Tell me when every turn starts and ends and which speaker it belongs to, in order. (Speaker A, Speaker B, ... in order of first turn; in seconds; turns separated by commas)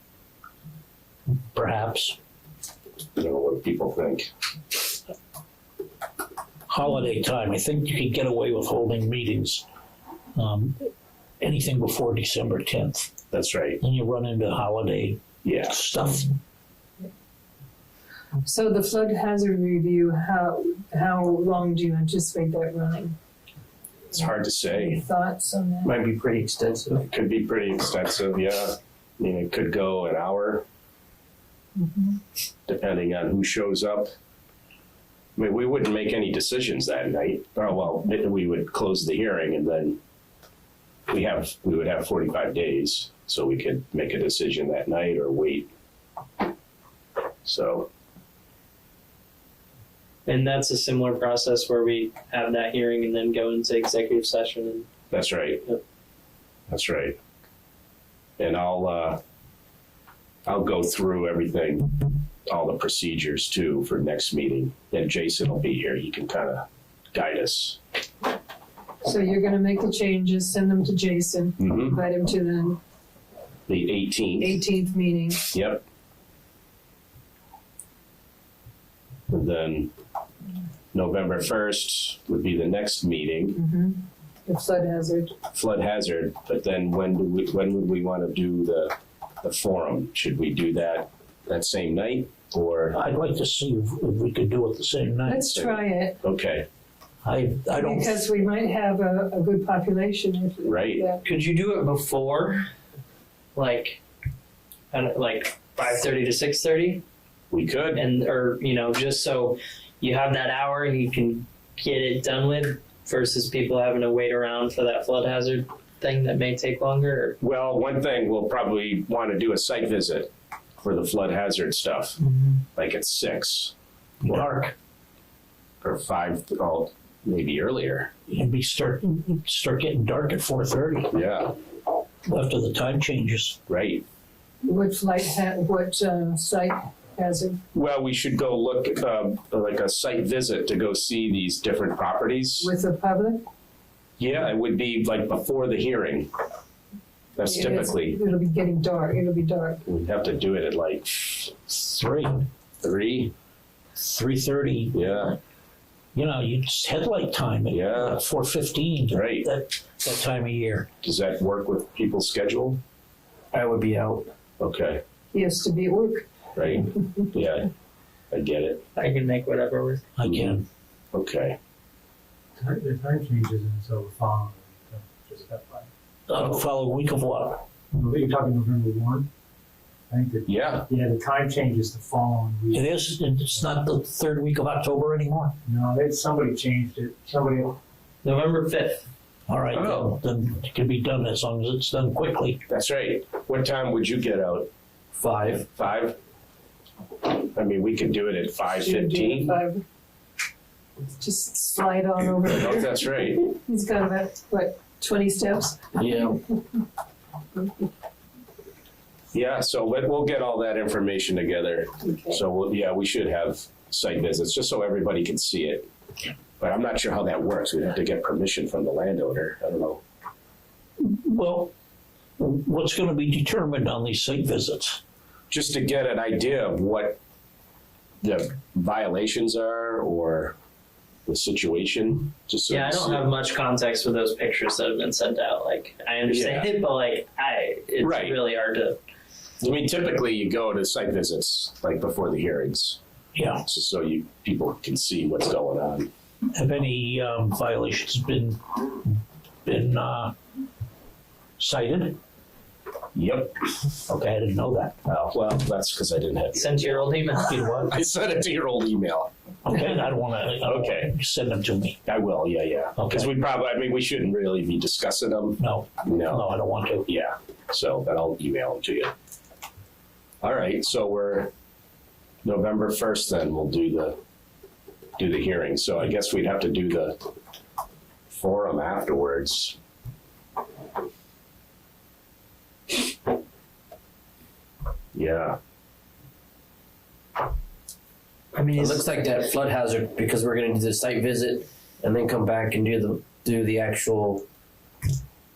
Speaker A: 1.3-2.2, Speaker B: 3.2-4.3, Speaker A: 6.7-9.6, Speaker A: 10.3-13.1, Speaker B: 13.3-13.8, Speaker A: 13.8-16.4, Speaker B: 15.4-15.8, Speaker C: 18.4-23.2, Speaker B: 24.1-25.0, Speaker C: 24.6-26.0, Speaker D: 25.8-27.1, Speaker B: 27.1-30.6, Speaker C: 31.8-32.2, Speaker B: 32.7-34.1, Speaker B: 35.4-40.0, Speaker B: 41.1-45.7, Speaker B: 47.4-47.9, Speaker E: 50.3-54.9, Speaker B: 55.1-55.6, Speaker B: 56.7-57.2, Speaker B: 58.4-59.2, Speaker B: 60.5-61.9, Speaker B: 62.5-67.8, Speaker C: 69.0-72.8, Speaker B: 71.6-72.0, Speaker B: 73.7-74.6, Speaker C: 74.4-75.5, Speaker B: 75.5-75.8, Speaker B: 79.3-79.9, Speaker B: 80.9-83.6, Speaker C: 83.5-85.3, Speaker B: 85.5-93.0, Speaker A: 92.9-95.4, Speaker C: 95.2-96.2, Speaker B: 95.5-96.7, Speaker A: 97.2-98.3, Speaker C: 97.8-101.2, Speaker B: 100.6-101.1, Speaker E: 101.2-102.7, Speaker E: 103.5-104.0, Speaker E: 104.9-107.0, Speaker B: 107.5-108.0, Speaker E: 107.9-117.4, Speaker B: 117.4-122.2, Speaker E: 122.2-122.6, Speaker B: 122.8-124.4, Speaker A: 124.2-124.7, Speaker B: 125.8-128.1, Speaker A: 128.3-131.1, Speaker B: 131.1-131.5, Speaker A: 132.3-133.6, Speaker B: 133.7-134.0, Speaker C: 134.6-137.6, Speaker B: 137.7-142.7, Speaker C: 142.6-143.4, Speaker B: 144.2-146.3, Speaker B: 147.4-148.2, Speaker C: 147.4-149.8, Speaker B: 149.9-151.6, Speaker A: 151.7-152.5, Speaker B: 152.8-153.3, Speaker A: 154.0-155.1, Speaker B: 154.9-155.4, Speaker A: 156.2-160.9, Speaker B: 157.7-158.2, Speaker B: 159.1-159.5, Speaker B: 161.0-162.8, Speaker D: 163.5-164.3, Speaker B: 164.6-165.0, Speaker C: 165.3-166.3, Speaker B: 166.6-167.7, Speaker C: 167.0-167.2, Speaker B: 168.3-168.8, Speaker E: 169.0-170.0, Speaker A: 170.2-170.7, Speaker B: 170.2-170.6, Speaker B: 171.1-171.6, Speaker F: 172.6-175.9, Speaker A: 176.3-177.7, Speaker B: 176.3-176.7, Speaker F: 178.0-179.3, Speaker F: 180.1-182.9, Speaker B: 180.5-180.9, Speaker A: 182.7-185.6, Speaker F: 185.7-187.8, Speaker E: 188.2-189.0, Speaker A: 189.5-192.6, Speaker B: 189.7-190.2, Speaker B: 192.7-194.7, Speaker D: 195.1-195.7, Speaker B: 195.7-196.2, Speaker B: 197.3-199.6, Speaker C: 198.8-199.8, Speaker C: 201.2-206.6, Speaker B: 202.5-203.5, Speaker B: 209.3-215.9, Speaker C: 212.0-212.4, Speaker B: 216.6-220.0, Speaker A: 221.0-221.7, Speaker A: 222.4-225.0, Speaker B: 225.5-227.2, Speaker B: 228.2-230.6, Speaker B: 231.3-233.3, Speaker E: 232.7-239.0, Speaker B: 236.3-236.7, Speaker B: 238.0-238.4, Speaker B: 239.6-243.0, Speaker A: 243.3-243.6, Speaker B: 243.7-246.1, Speaker A: 246.5-250.3, Speaker A: 251.6-252.2, Speaker B: 253.1-253.6, Speaker A: 254.1-255.0, Speaker B: 255.1-257.3, Speaker E: 256.6-257.9, Speaker A: 257.5-258.0, Speaker B: 257.9-259.9, Speaker A: 259.6-262.0, Speaker B: 260.6-261.1, Speaker B: 262.1-266.5, Speaker A: 263.0-263.3, Speaker A: 265.6-267.0, Speaker B: 267.1-269.1, Speaker B: 270.4-271.5, Speaker B: 272.4-274.2, Speaker B: 275.2-277.2, Speaker B: 278.3-279.8, Speaker B: 285.1-285.6, Speaker E: 288.5-289.1, Speaker D: 288.8-294.5